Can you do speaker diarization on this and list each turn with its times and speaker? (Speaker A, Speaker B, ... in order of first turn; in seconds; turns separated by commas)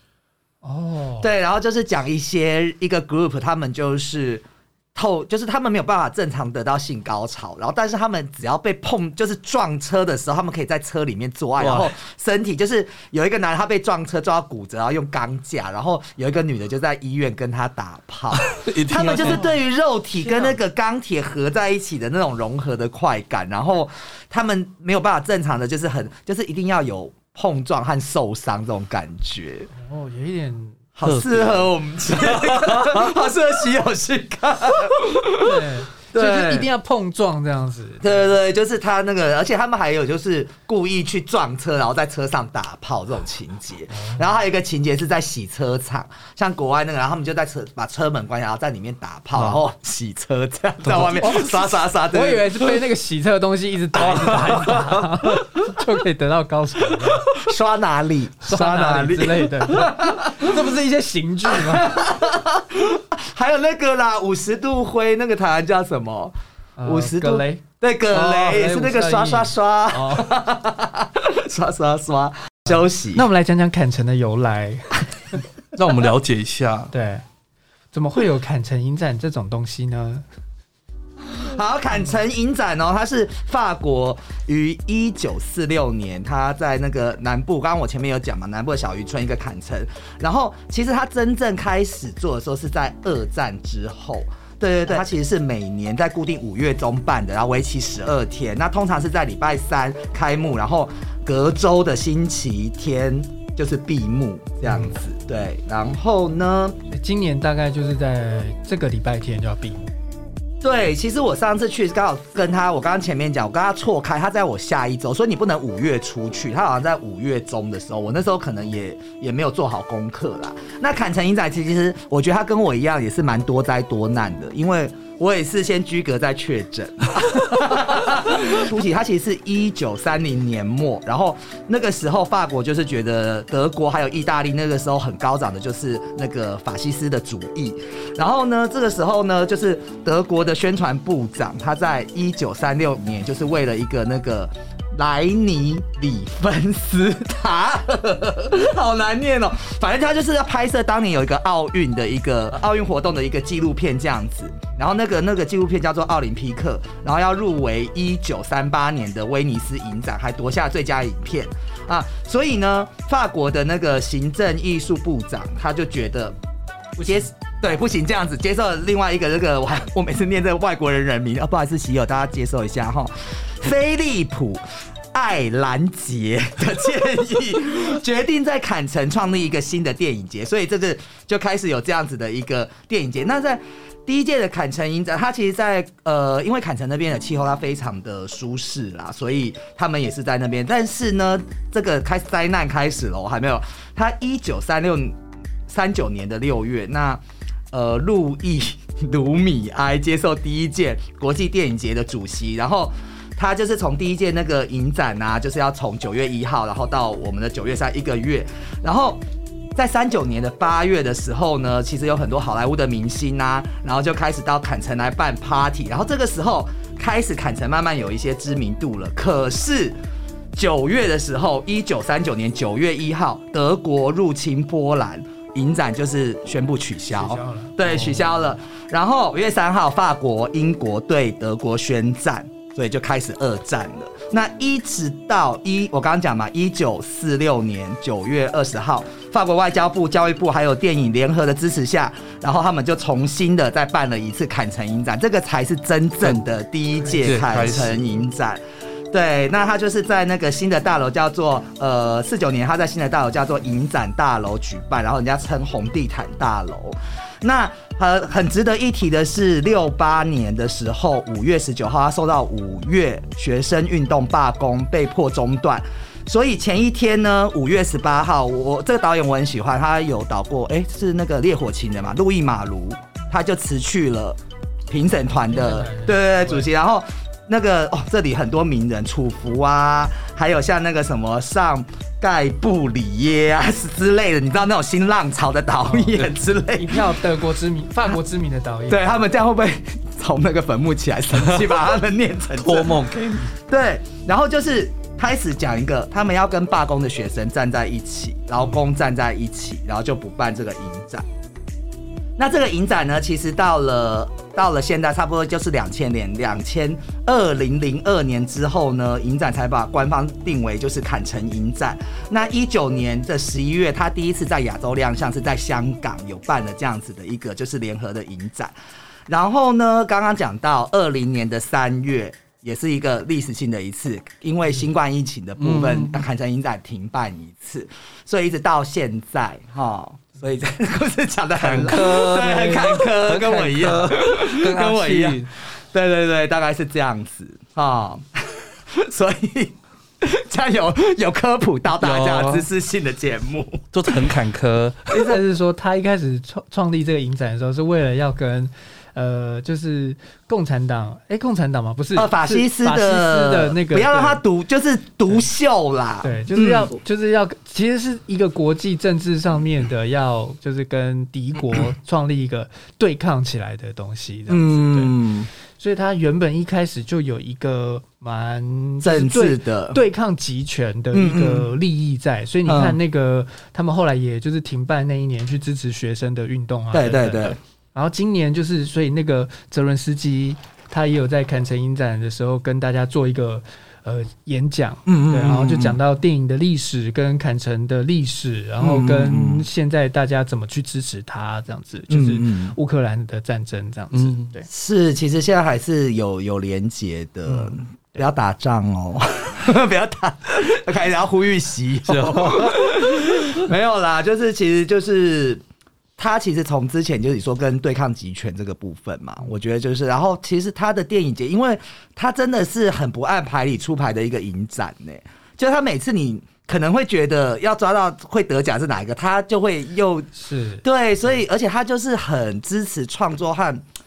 Speaker A: 0.6-1.3, Speaker B: 1.2-29.7, Speaker C: 11.6-11.9, Speaker C: 18.3-19.4, Speaker A: 19.1-19.5, Speaker A: 20.2-20.6, Speaker A: 29.8-30.8, Speaker B: 30.9-36.7, Speaker C: 31.0-33.1, Speaker A: 35.3-38.3, Speaker B: 38.0-52.5, Speaker A: 43.9-44.3, Speaker C: 50.8-51.3, Speaker A: 51.1-57.4, Speaker B: 53.9-54.9, Speaker B: 57.0-60.6, Speaker A: 58.4-62.0, Speaker B: 61.5-66.3, Speaker A: 66.8-70.4, Speaker B: 66.9-73.3, Speaker A: 72.7-75.4, Speaker C: 75.7-76.9, Speaker A: 76.9-77.2, Speaker A: 77.9-80.2, Speaker B: 81.3-106.8, Speaker A: 104.6-104.9, Speaker A: 106.9-109.9, Speaker B: 110.6-166.4, Speaker B: 167.0-174.6, Speaker B: 175.1-209.2, Speaker B: 209.8-220.0, Speaker B: 220.6-287.1, Speaker A: 227.1-228.3, Speaker C: 247.1-248.1, Speaker A: 275.5-276.7, Speaker A: 285.9-289.1, Speaker B: 288.9-301.3, Speaker C: 292.6-293.5, Speaker B: 302.4-318.8, Speaker B: 319.3-343.9, Speaker C: 325.6-326.2, Speaker C: 331.6-335.5, Speaker C: 342.0-342.6, Speaker C: 343.9-345.2, Speaker B: 345.1-345.4, Speaker A: 345.2-354.4, Speaker B: 352.1-356.9, Speaker A: 356.2-365.1, Speaker B: 364.5-365.5, Speaker A: 365.8-394.7, Speaker B: 369.0-370.0, Speaker B: 371.1-371.7, Speaker B: 372.6-373.0, Speaker B: 376.9-377.6, Speaker B: 385.1-386.0, Speaker B: 388.8-389.7, Speaker B: 392.1-392.7, Speaker C: 394.1-394.5, Speaker B: 394.7-405.6, Speaker A: 397.5-398.2, Speaker C: 402.1-403.5, Speaker B: 406.2-420.3, Speaker A: 420.3-420.8, Speaker B: 420.8-423.8